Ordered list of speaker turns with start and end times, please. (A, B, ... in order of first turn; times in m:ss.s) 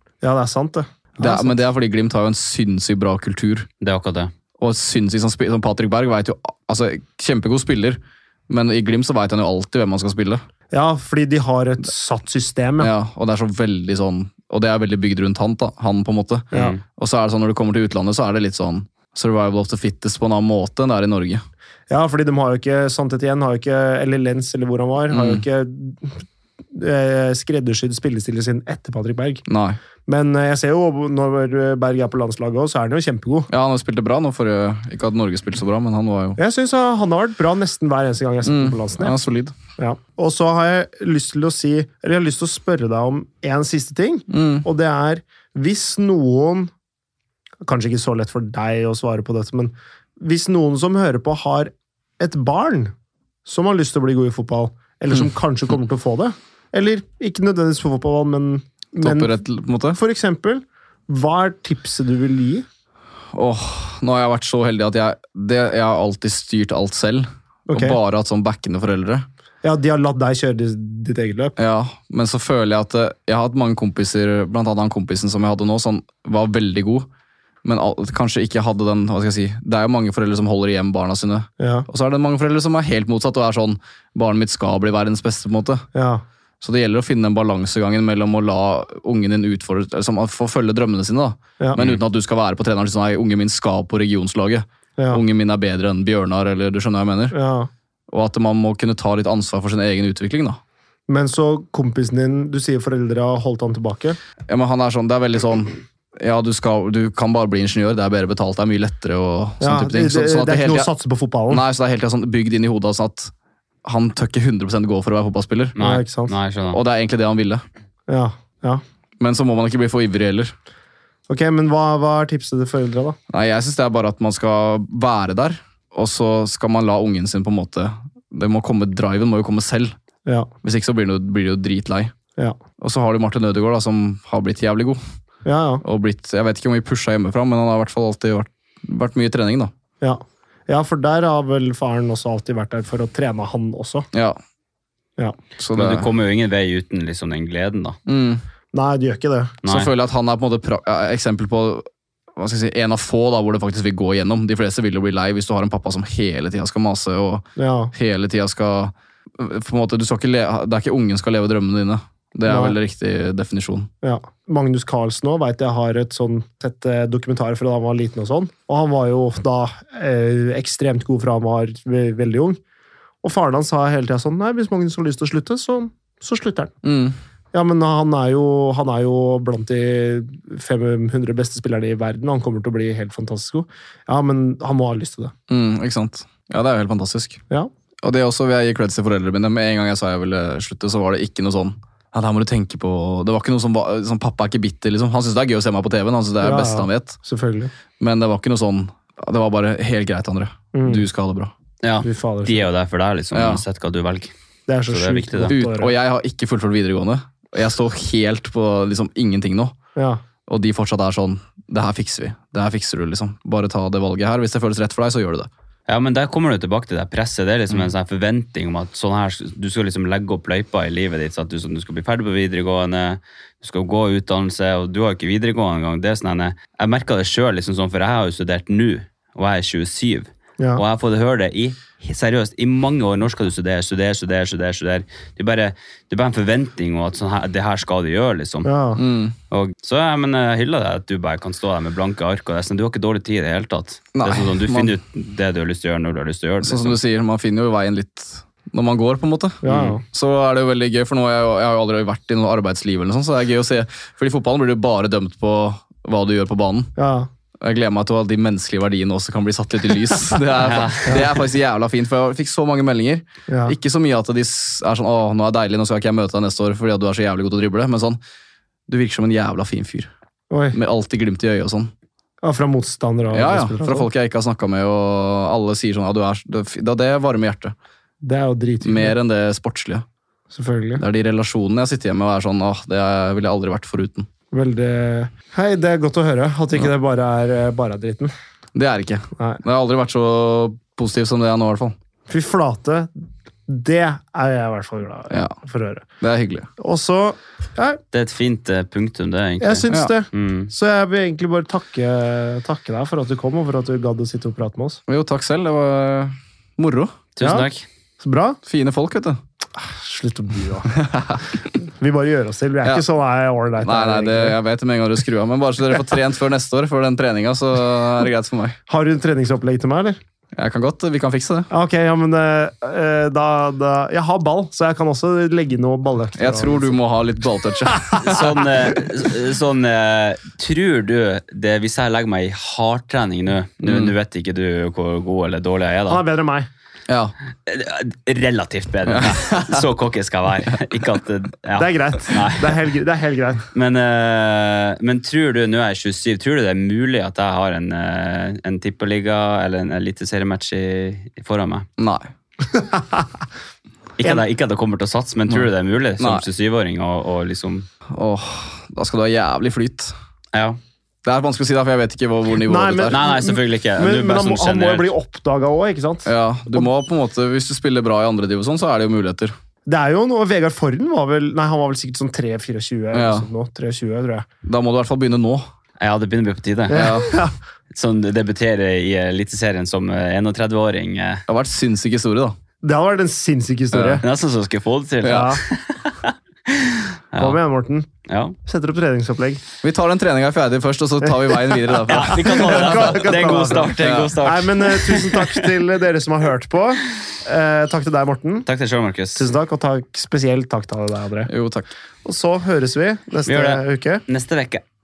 0:00.2-0:01.6 A
0:01.2-0:03.7 B
0:03.8-0:04.3 C
0:04.6-0:10.4 B
0:10.7-0:12.9 A
0:12.8-0:21.4 B
0:16.5-0:16.8 C
0:21.9-0:29.4 A
0:25.1-0:25.4 B
0:29.5-0:29.8 B
0:30.1-0:33.5 A
0:33.5-0:36.4 B
0:36.4-0:39.2 A
0:38.4-0:39.6 B
0:39.8-0:46.7 A
0:44.3-0:44.7 B
0:47.6-0:52.9 A
0:53.5-0:59.4 A
0:59.0-1:00.0 B
0:59.9-1:02.7 A
1:03.3-1:09.3 B
1:07.7-1:08.0 A
1:09.6-1:11.6 A
1:11.6-1:17.1 B
1:17.6-1:25.9 B
1:21.6-1:21.9 A
1:25.9-1:26.2 A
1:26.6-1:37.4 B
1:35.0-1:35.2 A
1:37.3-1:37.7 A
1:38.1-1:40.6 B
1:41.1-1:44.2 A
1:44.5-1:50.9 B
1:49.6-1:51.6 A
1:51.5-1:53.3 B
1:53.8-1:55.8 B
1:55.8-1:56.8 C
1:55.8-1:56.3 A
1:56.7-1:57.6 B
1:58.1-1:58.8 A
1:59.2-2:00.5 B
2:01.3-2:03.2 A
2:03.3-2:10.0 B
2:10.6-2:12.1 B
2:12.8-2:15.0 B
2:15.4-2:15.8 A
2:15.8-2:19.7 B
2:20.0-2:24.1 A
2:24.1-2:24.4 B
2:25.6-2:26.1 B
2:25.7-2:28.0 C
2:28.1-2:28.4 B
2:28.7-2:29.6 A
2:29.6-2:29.9 C
2:29.7-2:43.9 B
2:37.6-2:37.9 A
2:42.5-2:42.8 A
2:44.0-2:52.6 A
2:53.2-2:56.7 A
2:56.8-2:57.2 B
2:57.5-3:05.3 A
3:05.5-3:07.4 B
3:08.0-3:17.2 B
3:16.4-3:17.7 A
3:18.0-3:21.5 B
3:20.7-3:21.0 A
3:21.8-3:24.3 C
3:22.0-3:22.7 A
3:23.3-3:23.6 B
3:24.7-3:25.9 A
3:24.9-3:25.5 C
3:25.5-3:29.8 B
3:30.0-3:30.2 A
3:30.5-3:35.5 B
3:35.9-3:58.7 C
3:58.6-3:59.0 A
3:59.0-3:59.4 B
3:59.5-4:07.0 C
4:04.1-4:05.0 B
4:06.6-4:16.9 B
4:09.6-4:10.0 A
4:09.7-4:10.0 C
4:17.0-4:17.3 A
4:17.6-4:28.2 B
4:20.6-4:21.3 C
4:23.5-4:23.8 A
4:28.9-4:30.1 B
4:30.5-4:30.8 A
4:30.7-4:31.9 B
4:32.4-4:34.1 A
4:33.3-4:37.8 B
4:38.2-4:39.2 A
4:38.8-4:40.0 B
4:40.5-4:41.0 A
4:41.0-4:44.3 B
4:44.5-4:48.3 A
4:48.8-4:52.0 B
4:49.4-4:49.6 A
4:52.3-4:53.1 A
4:53.7-4:56.0 A
4:55.3-4:55.6 B
4:56.2-4:56.7 B
4:56.8-4:58.0 A
4:58.1-5:00.7 C
4:59.6-5:05.0 A
5:05.1-5:07.2 B
5:07.4-5:07.8 C
5:07.4-5:07.7 A
5:08.2-5:08.6 A
5:08.6-5:09.4 B
5:09.8-5:10.9 A
5:11.0-5:11.6 B
5:11.8-5:14.6 A
5:13.8-5:18.8 B
5:18.9-5:20.2 A
5:20.6-5:21.7 B
5:21.7-5:27.0 A
5:26.4-5:28.5 B
5:27.8-5:28.4 A
5:28.2-5:36.2 C
5:33.8-5:34.1 B
5:36.1-5:36.7 A
5:37.1-5:37.3 B
5:37.7-5:42.8 C
5:39.1-5:39.8 B
5:41.8-5:43.6 A
5:43.7-5:51.9 C
5:52.0-5:52.3 B
5:52.7-5:53.3 A
5:54.2-5:57.9 C
5:56.2-5:56.4 B
5:58.1-6:00.1 B
6:00.5-6:00.8 C
6:01.2-6:03.2 B
6:02.6-6:06.8 A
6:03.1-6:05.1 C
6:06.3-6:09.6 B
6:09.9-6:14.5 A
6:13.1-6:13.5 B
6:14.6-6:15.7 B
6:16.0-6:17.2 C
6:16.9-6:17.5 A
6:16.9-6:17.3 B
6:17.9-6:21.4 C
6:21.5-6:22.6 B
6:22.8-6:24.2 A
6:23.9-6:24.2 B
6:24.2-6:27.6 C
6:25.2-6:25.6 B
6:25.2-6:25.6 A
6:27.4-6:28.1 A
6:28.3-6:28.6 C
6:28.6-6:29.6 A
6:29.8-6:33.2 B
6:31.9-6:38.7 A
6:32.1-6:35.7 C
6:34.0-6:34.4 B
6:38.7-6:39.4 C
6:39.4-6:41.5 A
6:41.5-6:41.9 B
6:42.2-6:44.2 A
6:43.5-6:44.8 C